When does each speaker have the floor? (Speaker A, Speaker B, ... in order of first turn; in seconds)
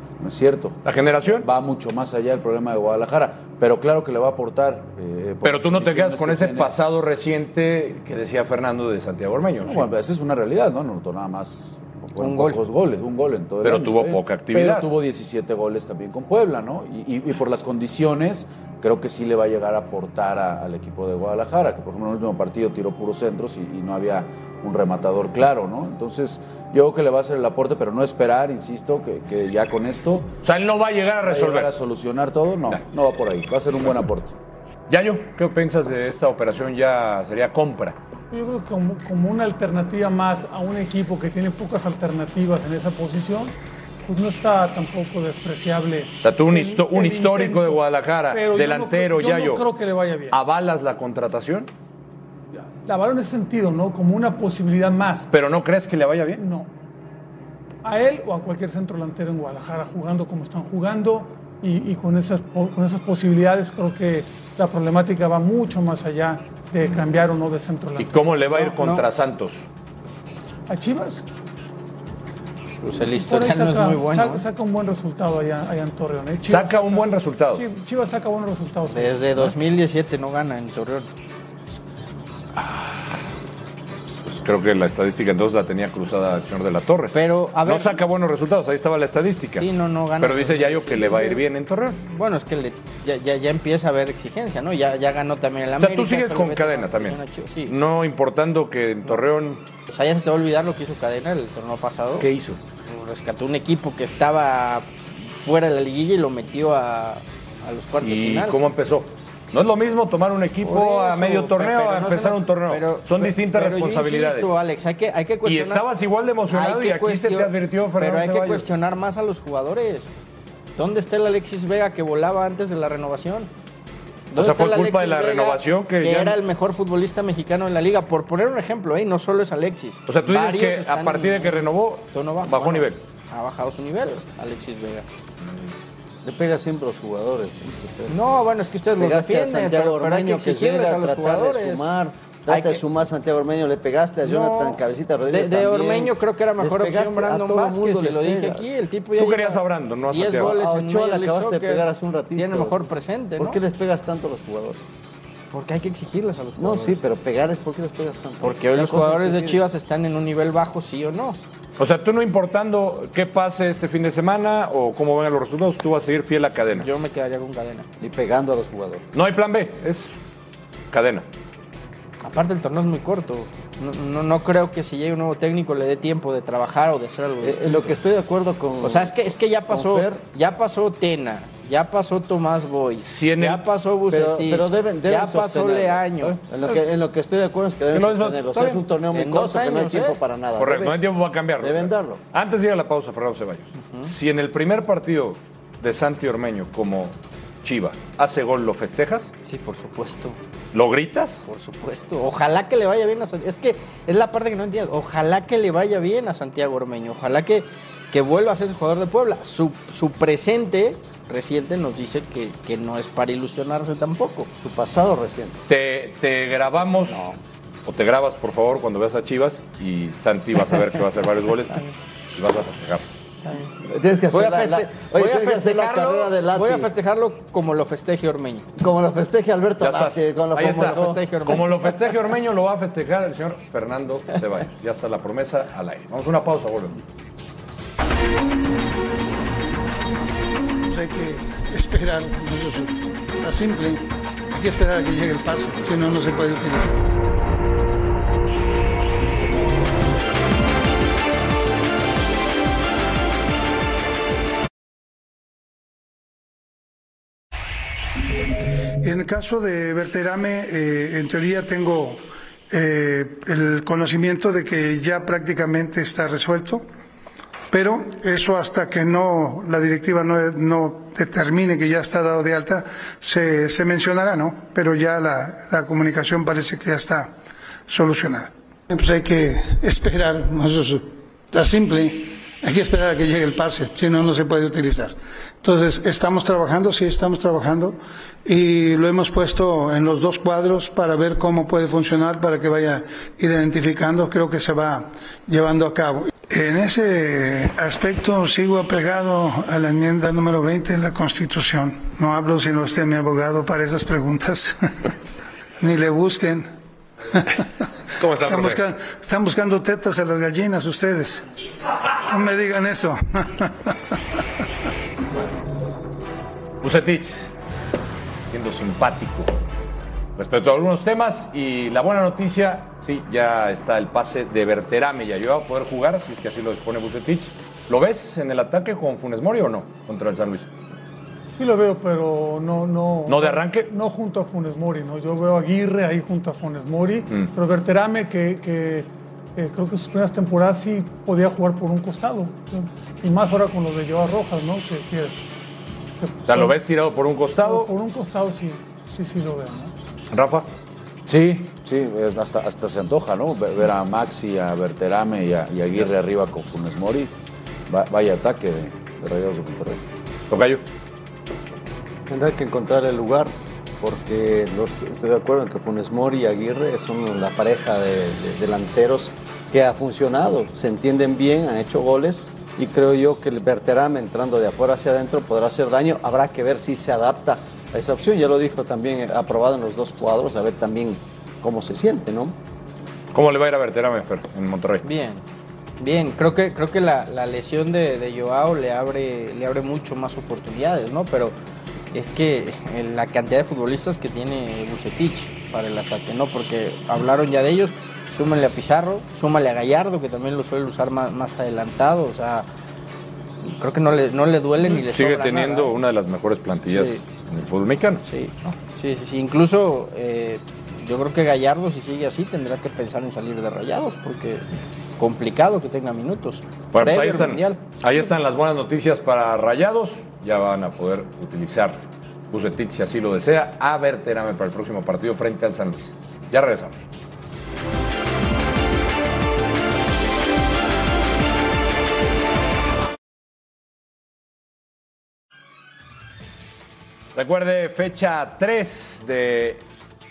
Speaker A: 0.2-6.7, 9.6-30.3, 31.2-34.3, 351.3-357.3, 357.9-360.0
Speaker B: 0.8-1.4, 5.4-9.9, 13.6-14.9, 30.4-31.7, 34.9-38.0, 46.2-49.6, 50.3-51.7, 55.3-56.4, 68.0-69.7, 76.4-77.7, 84.3-89.7, 90.2-92.0, 95.8-99.6, 102.2-102.6, 108.0-114.5, 115.4-118.7, 124.3-126.4, 130.1-133.0, 149.2-150.6, 161.8-166.9, 169.1-170.2, 170.9-171.2, 183.0-183.6, 186.2-186.8, 187.9-188.8, 190.6-199.3, 200.7-201.4, 215.7-217.3, 217.8-223.1, 229.8-237.0, 308.2-308.8, 316.8-317.4, 318.5-319.5, 320.4-330.7, 333.3-333.9, 346.4-347.9, 350.3-350.7, 360.5-360.8, 383.3-385.0, 404.8-408.2, 416.9-422.0, 422.5-427.1, 437.3-439.8
Speaker C: 12.2-12.6, 68.5-69.0, 72.8-74.4, 78.9-81.1, 87.1-88.0, 89.5-91.4, 92.0-97.7, 99.9-102.3, 102.9-108.6, 110.6-115.8, 116.5-120.1, 120.8-123.5, 124.3-135.1, 138.1-141.8, 142.5-142.8, 144.2-153.6, 155.5-157.0, 158.4-161.4, 166.7-167.9, 172.2-178.0, 178.8-186.4, 189.1-190.2, 193.8-194.1, 199.4-200.4, 201.4-214.5, 223.4-223.7, 224.3-228.7, 230.6-231.8, 385.0-385.4, 386.0-391.5, 392.1-402.7, 403.6-405.9, 406.9-407.2, 408.2-414.7, 415.2-417.8
Speaker D: 38.3-50.4, 52.8-55.3, 56.4-56.7, 57.8-68.2, 70.7-71.2, 72.9-79.4, 331.5-345.4, 346.2-346.8, 347.6-349.9
Speaker E: 136.2-138.4, 139.0-148.8, 150.4-152.9, 153.4-154.8, 156.6-159.6, 168.0-169.0, 177.4-180.2, 184.1-191.0, 191.6-192.2, 214.6-215.6, 216.8-217.4, 223.8-226.9, 228.8-231.5, 362.3-382.6
Speaker F: 240.9-247.0, 259.0-266.9, 267.7-277.3, 277.9-305.1, 305.8-306.7, 307.3-307.7, 308.4-311.5, 312.1-313.9